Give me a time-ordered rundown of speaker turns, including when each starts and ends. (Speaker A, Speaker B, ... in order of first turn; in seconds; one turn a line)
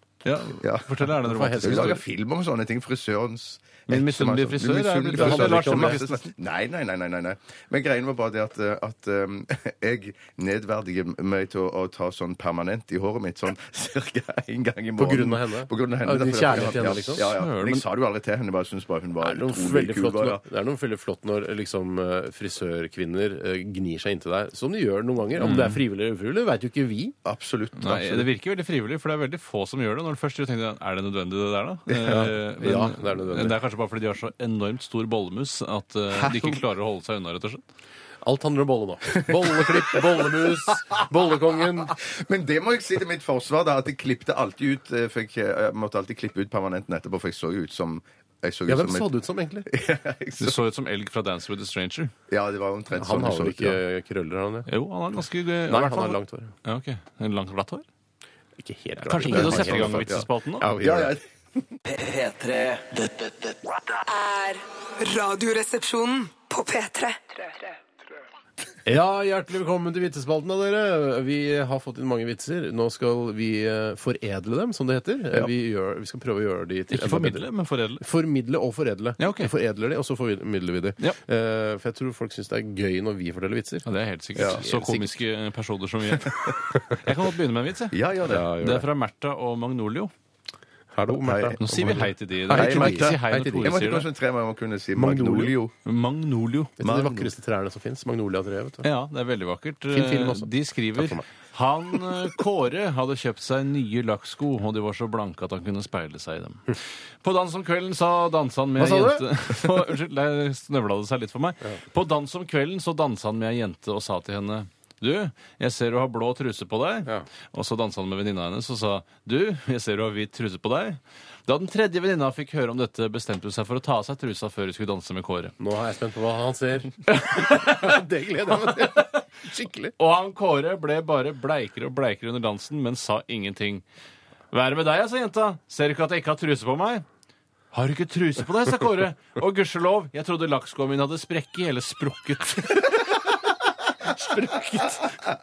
Speaker A: 0.2-2.0
Speaker B: 0.6-1.1
Speaker C: 1.2-2.0
Speaker B: 1.6-20.4
Speaker A: 3.9-6.2
Speaker C: 5.1-6.0
Speaker C: 15.0-17.3
Speaker A: 17.2-17.9
Speaker C: 19.2-27.1
Speaker A: 25.4-25.8
Speaker B: 27.2-28.3
Speaker A: 27.8-37.6
Speaker B: 31.9-32.2
Speaker C: 32.1-33.5
Speaker B: 36.1-36.6
Speaker C: 38.2-42.0
Speaker B: 39.2-40.8
Speaker B: 41.9-49.1
Speaker C: 48.7-49.7
Speaker B: 49.7-50.6
Speaker A: 50.4-52.1
Speaker B: 52.3-53.8
Speaker C: 53.0-54.7
Speaker A: 54.7-57.9
Speaker C: 55.7-56.5
Speaker C: 58.6-61.2
Speaker A: 59.1-60.7
Speaker B: 59.2-61.2
Speaker D: 61.9-64.0
Speaker E: 64.1-67.2
Speaker C: 68.9-77.5
Speaker A: 76.9-78.0
Speaker C: 78.0-85.1
Speaker A: 79.2-79.5
Speaker A: 83.9-88.0
Speaker B: 87.9-88.5
Speaker C: 88.3-88.9
Speaker A: 88.6-90.1
Speaker C: 90.9-93.8
Speaker B: 91.1-91.6
Speaker A: 91.6-94.1
Speaker B: 92.5-95.7
Speaker C: 95.0-95.5
Speaker A: 95.8-96.8
Speaker C: 96.8-98.9
Speaker B: 96.8-97.3
Speaker A: 98.8-125.5
Speaker C: 99.9-101.2
Speaker C: 108.8-109.3
Speaker C: 125.6-129.9
Speaker A: 127.1-129.1
Speaker A: 130.0-133.8
Speaker A: 134.5-137.1
Speaker A: 137.7-143.3
Speaker A: 144.1-145.0